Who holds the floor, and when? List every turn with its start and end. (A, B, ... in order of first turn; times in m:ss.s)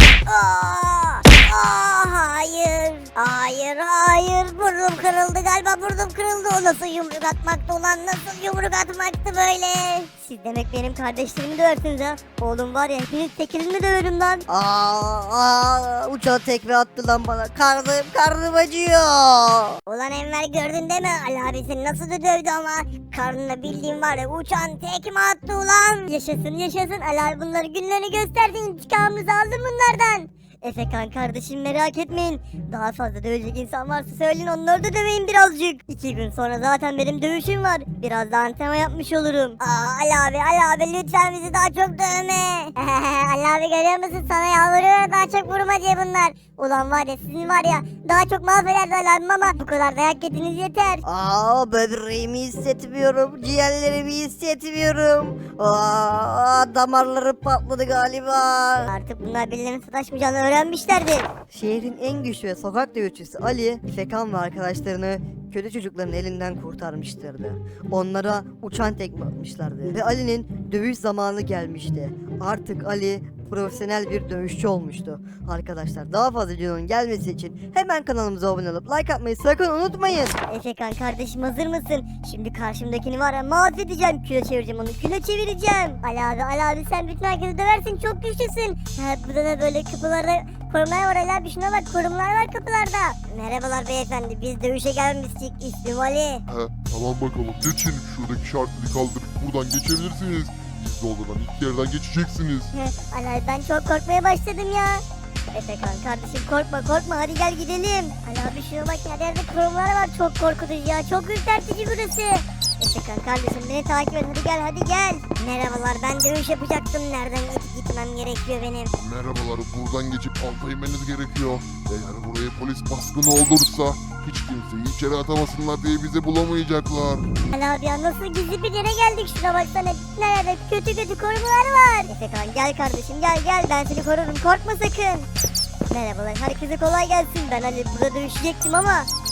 0:00.3-0:14.4 A
0:14.5-0:14.8 B
0:14.8-0:16.0 C
0:16.2-0:19.8 B
0:19.9-0:51.0 A
0:51.0-0:58.9 B
0:58.8-1:01.3 A
1:01.5-1:20.4 C
1:20.5-1:36.4 A
1:36.5-1:42.7 D
1:42.7-1:58.9 A
1:59.0-2:07.2 D
2:07.5-2:15.3 A
2:15.9-2:19.1 A